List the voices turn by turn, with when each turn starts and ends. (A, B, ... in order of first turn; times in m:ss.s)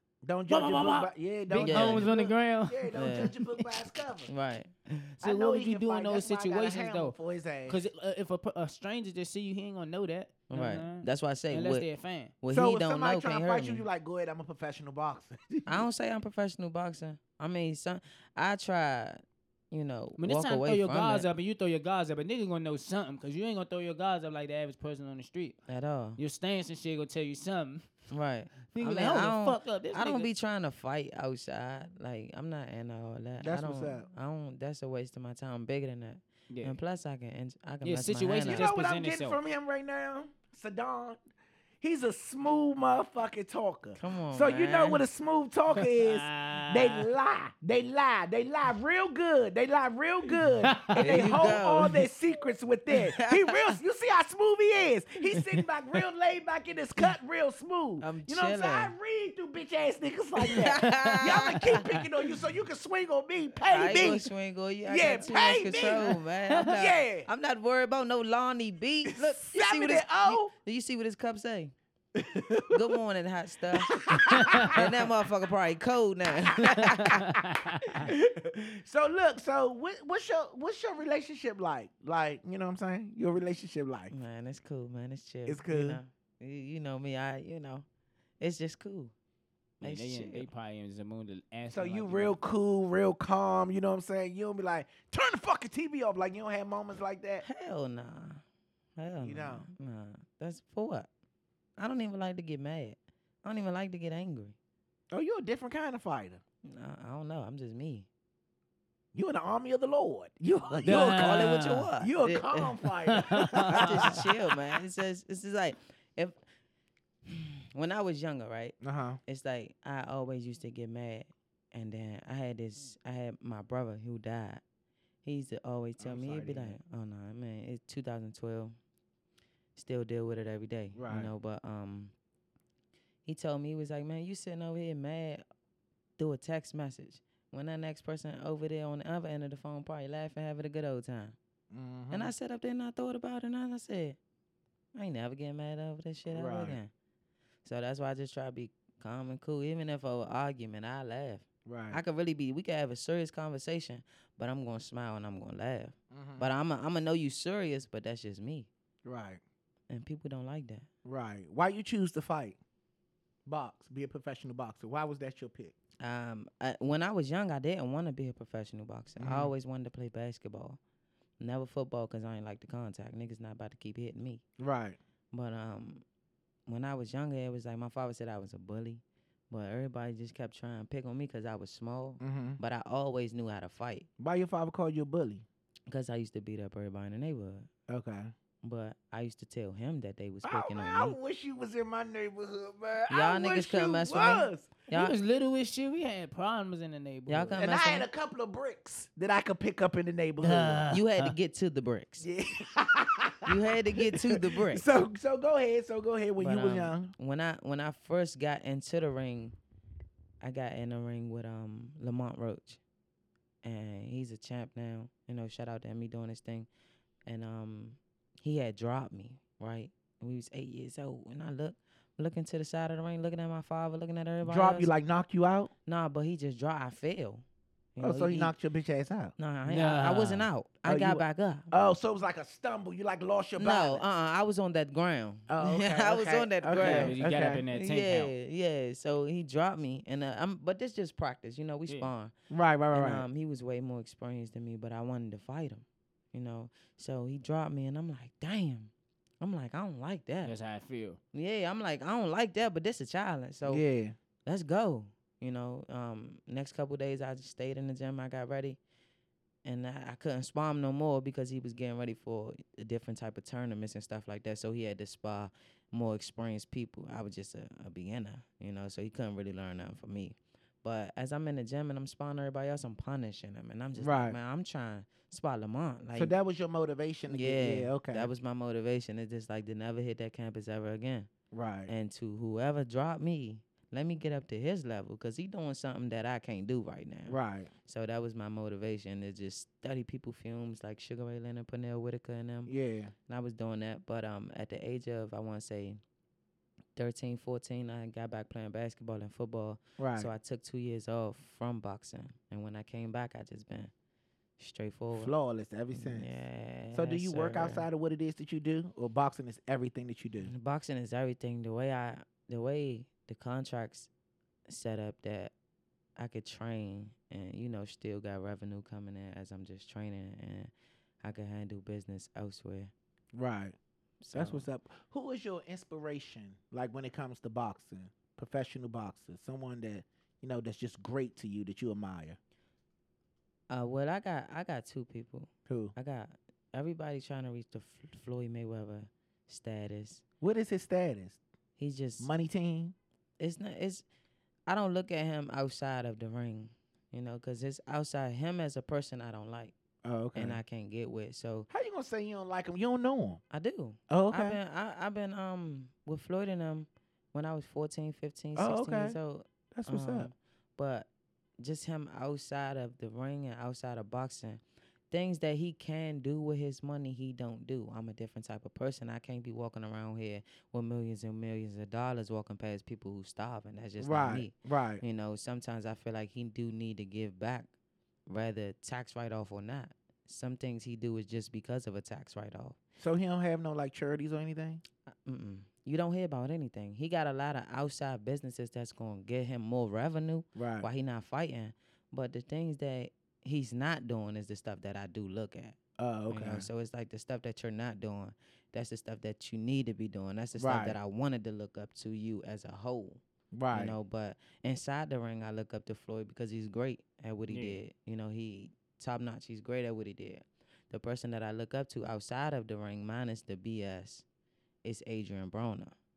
0:00.2-0:04.3 A
0:00.5-0:03.8 B
0:01.6-0:02.1 C
0:02.9-0:03.3 C
0:04.3-0:05.1 C
0:05.2-0:07.8 A
0:05.2-0:12.3 B
0:10.5-0:11.9 C
0:12.4-0:13.8 C
0:12.5-0:15.8 A
0:15.6-0:21.3 C
0:20.2-0:25.6 B
0:25.7-0:26.2 C
0:26.2-0:27.9 B
0:28.1-0:38.7 C
0:28.7-0:30.3 B
0:33.4-0:34.1 A
0:36.5-0:36.8 B
0:37.8-0:39.4 B
0:38.4-0:41.2 A
0:41.8-1:04.3 A
0:44.0-0:45.0 C
0:45.8-0:47.0 B
0:50.6-0:51.3 B
0:50.9-0:51.9 C
0:53.1-0:53.8 C
0:58.0-0:58.9 C
1:00.4-1:02.0 C
1:03.7-1:11.7 C
1:04.8-1:07.3 A
1:09.1-1:10.5 A
1:12.1-1:13.0 A
1:12.7-1:14.0 C
1:13.8-1:14.8 A
1:14.4-1:14.6 B
1:14.6-1:17.2 C
1:17.0-1:18.1 B
1:18.0-1:24.1 A
1:24.1-1:27.8 C
1:25.4-1:26.0 A
1:28.4-1:29.1 C
1:29.8-1:30.5 C
1:29.8-1:32.4 B
1:31.7-1:37.4 A
1:37.4-1:38.4 C
1:39.0-1:41.1 C
1:39.2-1:39.7 A
1:41.8-1:44.6 C
1:45.1-1:46.4 A
1:46.6-1:48.1 C
1:49.1-1:54.3 A
1:50.8-1:51.8 B
1:50.8-1:52.7 C
1:53.1-1:54.1 B
1:53.6-1:56.4 C
1:57.3-2:04.6 C
1:58.8-1:59.2 A
2:05.2-2:08.8 C
2:06.0-2:06.8 A
2:09.8-2:12.1 C
2:10.9-2:11.3 A
2:13.2-2:15.4 C
2:16.2-2:21.4 C
2:21.7-2:22.3 A
2:22.1-2:24.2 C
2:24.9-2:26.9 C
2:26.3-2:26.8 A
2:27.6-2:38.7 C
2:31.6-2:32.0 A
2:36.1-2:36.5 A
2:39.0-2:39.4 A
2:39.9-2:40.9 C
2:41.0-2:42.6 A
2:43.4-2:45.7 A
2:46.0-2:50.8 C
2:49.2-2:49.5 A
2:51.4-2:54.4 C
2:54.6-2:55.0 A
2:55.3-2:56.0 C
2:56.7-3:04.1 C
3:02.2-3:02.6 A
3:04.2-3:05.4 A
3:05.9-3:07.7 C
3:07.9-3:08.3 A
3:08.6-3:11.2 C
3:10.4-3:14.7 A
3:13.1-3:15.2 C
3:14.9-3:17.6 B
3:17.3-3:18.1 C
3:17.6-3:20.9 A
3:20.4-3:21.3 B
3:20.9-3:22.3 C
3:22.2-3:27.1 A
3:23.4-3:24.9 C
3:26.4-3:29.6 C
3:30.4-3:32.8 C
3:33.6-3:36.7 C
3:37.2-3:44.9 C
3:44.4-3:45.7 A
3:45.8-3:48.5 C
3:48.0-3:49.3 A
3:49.4-3:51.7 C
3:49.7-3:50.5 B
3:50.8-3:54.0 A
3:53.6-4:02.3 C
3:55.5-3:57.6 A
3:56.8-3:58.3 B
4:02.5-4:03.2 A
4:02.9-4:10.5 C
4:10.4-4:11.2 B
4:11.3-4:13.8 C
4:13.6-4:14.2 A
4:14.4-4:18.8 C
4:19.6-4:36.3 C
4:34.0-4:34.4 A
4:36.1-4:38.3 A
4:37.3-4:41.3 C
4:41.5-4:41.9 A
4:41.9-4:52.7 C
4:47.3-4:47.7 A
4:52.7-4:53.1 A
4:53.3-4:56.0 C
4:57.0-5:03.9 C
5:00.0-5:00.3 A
5:04.6-5:05.3 C
5:05.1-5:06.4 A
5:05.9-5:07.8 C
5:06.9-5:10.5 A
5:10.4-5:14.1 C
5:14.7-5:15.5 C
5:16.2-5:20.7 C
5:21.2-5:22.9 C
5:23.3-5:23.8 A
5:24.2-5:24.7 C
5:24.3-5:32.4 A
5:33.7-5:40.2 C
5:35.7-5:35.9 A
5:40.4-5:41.4 A
5:41.8-5:42.3 C
5:42.2-5:42.9 A
5:43.4-5:44.0 C
5:44.7-5:49.7 C
5:50.0-5:50.6 A
5:50.3-5:51.7 C
5:51.7-5:53.4 A
5:53.5-6:01.1 C
5:54.1-5:54.6 A
5:58.6-5:59.2 A
5:59.7-6:00.3 A
6:01.6-6:17.7 C
6:14.0-6:15.0 A
6:18.3-6:22.8 C
6:23.0-6:24.8 A
6:25.1-6:35.8 C
6:30.5-6:30.9 A
6:36.0-6:36.7 A
6:36.3-6:54.2 C
6:40.6-6:41.0 A
6:43.5-6:43.9 A
6:47.5-6:47.8 B
6:54.8-6:56.0 C